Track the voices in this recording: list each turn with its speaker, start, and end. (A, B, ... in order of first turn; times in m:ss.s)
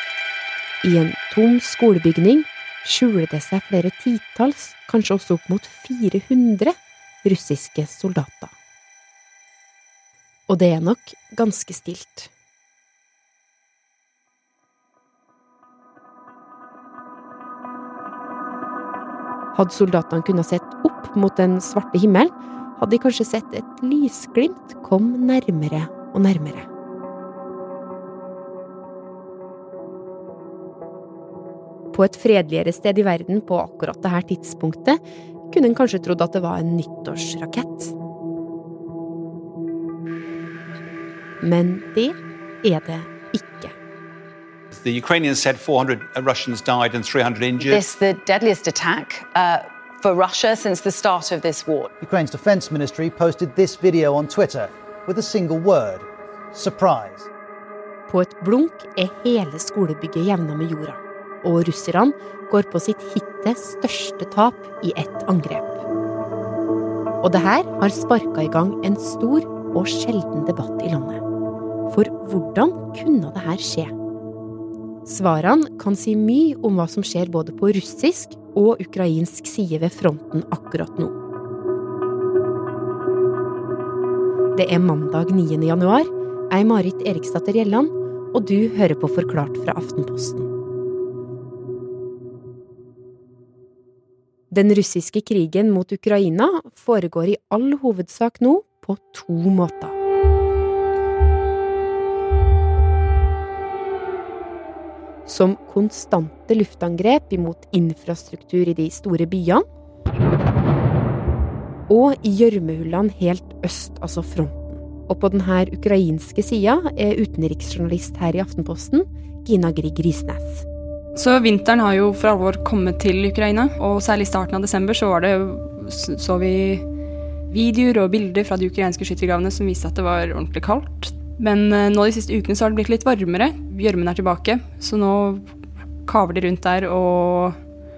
0:00.8-0:08.5 A
0:10.5-0:12.3 A
0:19.6-0:26.7 A
0:31.9-0:37.9 A
0:41.4-0:43.7 A
0:44.8-0:47.8 B
0:47.6-0:51.9 C
0:52.0-0:57.3 D
0:58.1-1:05.8 A
1:07.2-1:11.2 A
1:11.9-1:13.9 A
1:15.1-1:21.1 A
1:24.6-1:30.5 A
1:34.5-1:40.0 A
1:45.3-1:49.6 A
1:51.9-2:00.7 A
2:01.2-2:06.8 E
2:07.5-2:15.5 E
2:16.1-2:17.6 E